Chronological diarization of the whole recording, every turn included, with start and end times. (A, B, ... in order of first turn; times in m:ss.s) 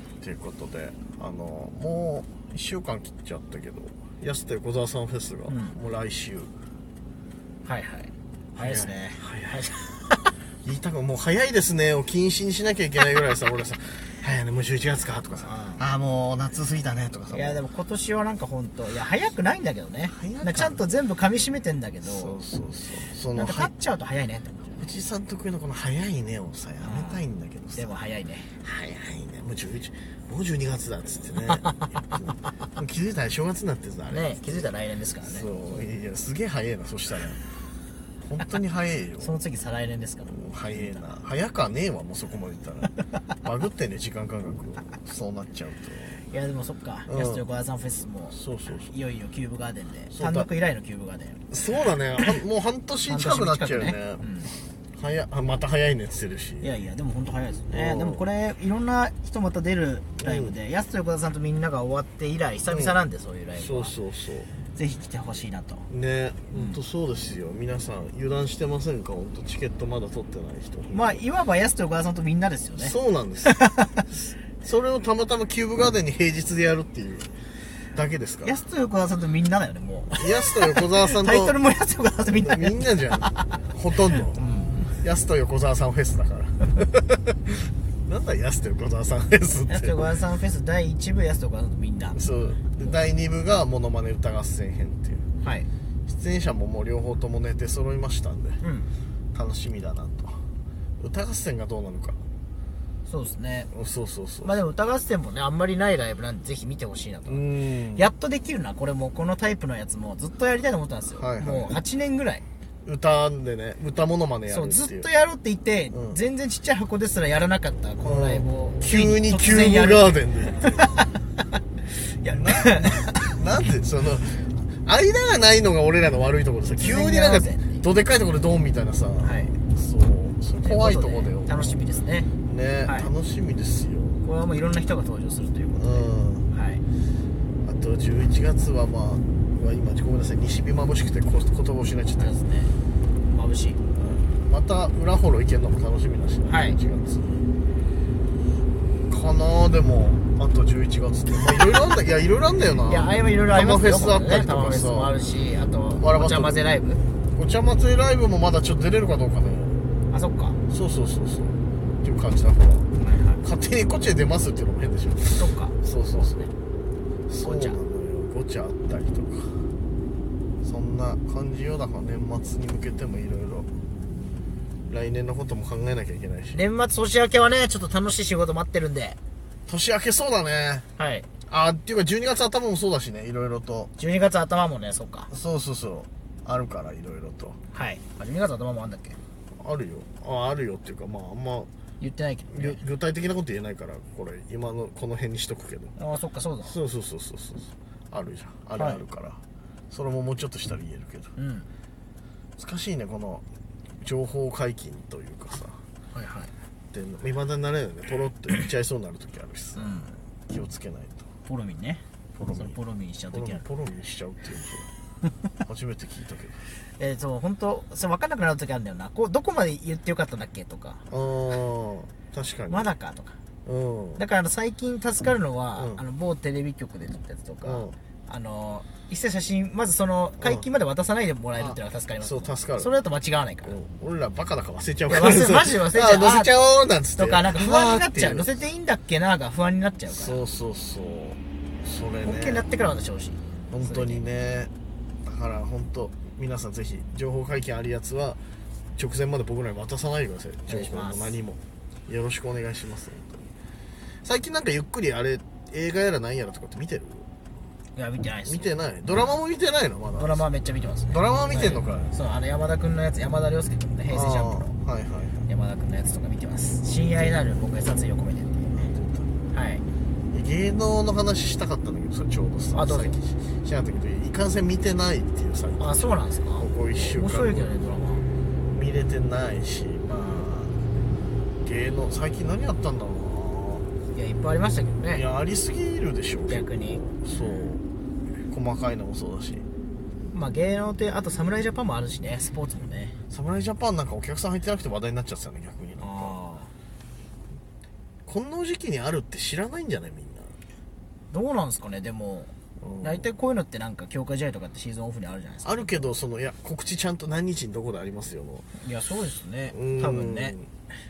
0:00.2-0:06.5 A
0:05.5-0:05.8 B
0:07.6-0:10.3 B
0:08.6-0:09.7 A
0:10.6-0:17.6 A
0:15.4-0:15.8 B
0:17.3-0:22.4 B
0:20.1-0:20.9 A
0:22.0-0:23.7 A
0:23.3-0:24.9 B
0:24.8-0:27.9 A
0:26.8-0:28.5 B
0:28.6-0:34.7 A
0:31.5-0:32.2 B
0:34.1-0:35.8 B
0:35.2-0:37.4 A
0:38.2-0:39.4 A
0:39.2-0:41.1 B
0:40.2-0:46.2 A
0:46.3-0:51.4 B
0:47.1-0:47.4 A
0:48.3-0:48.9 A
0:50.1-0:50.5 A
0:51.5-0:54.2 A
0:53.1-0:54.5 B
0:54.9-0:56.7 A
0:56.6-1:03.9 B
0:57.7-0:58.2 A
1:00.2-1:00.5 A
1:02.7-1:03.0 A
1:03.6-1:04.5 A
1:04.7-1:05.8 B
1:05.9-1:11.2 A
1:06.5-1:06.8 B
1:10.9-1:14.1 B
1:12.8-1:13.6 A
1:14.6-1:17.3 A
1:17.9-1:18.5 A
1:18.4-1:23.7 B
1:20.1-1:21.6 A
1:22.3-1:30.1 A
1:24.3-1:24.9 B
1:29.7-1:32.2 B
1:32.1-1:35.2 A
1:35.4-1:35.7 B
1:36.1-1:38.6 A
1:38.6-1:38.9 B
1:39.3-1:40.4 A
1:41.0-1:42.2 A
1:43.0-1:43.7 B
1:43.7-1:44.5 A
1:44.4-1:52.4 B
1:47.2-1:48.1 A
1:51.1-1:51.8 A
1:52.8-1:55.0 A
1:54.5-2:00.2 B
1:55.9-1:56.2 A
1:58.0-2:00.9 A
2:00.7-2:01.1 B
2:02.0-2:03.3 B
2:02.3-2:11.7 A
2:06.8-2:07.8 B
2:09.2-2:09.6 B
2:10.6-2:12.3 B
2:12.4-2:14.2 A
2:12.8-2:13.1 B
2:14.2-2:16.8 B
2:15.8-2:16.4 A
2:17.6-2:22.4 A
2:22.2-2:22.8 B
2:23.3-2:23.8 B
2:24.0-2:27.4 A
2:26.4-2:26.8 B
2:29.1-2:35.1 A
2:32.8-2:37.0 B
2:36.0-2:36.6 A
2:37.3-2:39.8 A
2:40.1-2:40.6 B
2:40.7-2:42.9 A
2:43.0-2:43.4 B
2:43.4-2:46.5 A
2:45.3-2:46.5 B
2:47.3-2:49.7 A
2:47.4-2:47.8 B
2:50.6-2:53.7 A
2:54.9-2:56.6 A
2:56.5-2:59.2 B
2:59.7-3:00.8 A
3:01.0-3:01.3 B
3:01.5-3:03.9 A
3:04.0-3:05.3 B
3:05.3-3:07.6 A
3:07.7-3:09.2 B
3:09.6-3:11.7 A
3:12.0-3:12.8 B
3:12.5-3:15.9 A
3:16.0-3:16.8 B
3:16.6-3:21.3 A
3:18.8-3:19.0 B
3:21.4-3:21.7 B
3:22.6-3:23.4 A
3:24.0-3:25.8 A
3:26.1-3:26.5 B
3:26.9-3:31.2 A
3:29.7-3:30.2 B
3:31.4-3:33.6 B
3:32.4-3:32.8 A
3:33.3-3:34.9 A
3:35.6-3:36.6 A
3:37.0-3:41.0 B
3:41.1-3:42.9 A
3:42.7-3:43.4 B
3:43.6-3:44.2 A
3:44.2-3:53.7 B
3:45.8-3:46.0 A
3:47.6-3:47.9 A
3:51.6-3:52.9 A
3:53.6-3:58.5 A
3:55.1-3:56.6 B
3:57.2-4:00.4 B
4:00.1-4:02.6 A
4:02.2-4:04.2 B
4:03.7-4:04.7 A
4:05.2-4:08.4 A
4:08.9-4:13.4 A
4:10.7-4:11.3 B
4:14.2-4:17.3 A
4:17.9-4:19.3 B
4:18.4-4:20.4 A
4:20.2-4:24.7 B
4:21.1-4:22.1 A
4:24.1-4:25.4 A
4:25.5-4:28.9 B
4:27.1-4:27.4 A
4:28.7-4:29.4 A
4:29.5-4:29.8 B
4:30.3-4:37.7 A
4:32.7-4:33.2 B
4:35.8-4:38.2 B
4:38.7-4:40.8 A
4:40.1-4:40.5 B
4:41.6-4:43.9 A
4:44.1-4:45.2 B
4:45.1-4:47.8 A
4:46.5-4:47.7 B
4:48.5-4:49.6 A
4:50.3-4:53.2 B
4:53.3-4:56.4 A
4:56.0-4:56.7 B
4:58.2-5:00.6 A
5:01.3-5:06.1 B
5:02.8-5:03.3 A
5:05.6-5:08.7 A
5:08.8-5:10.6 B
5:09.7-5:10.7 A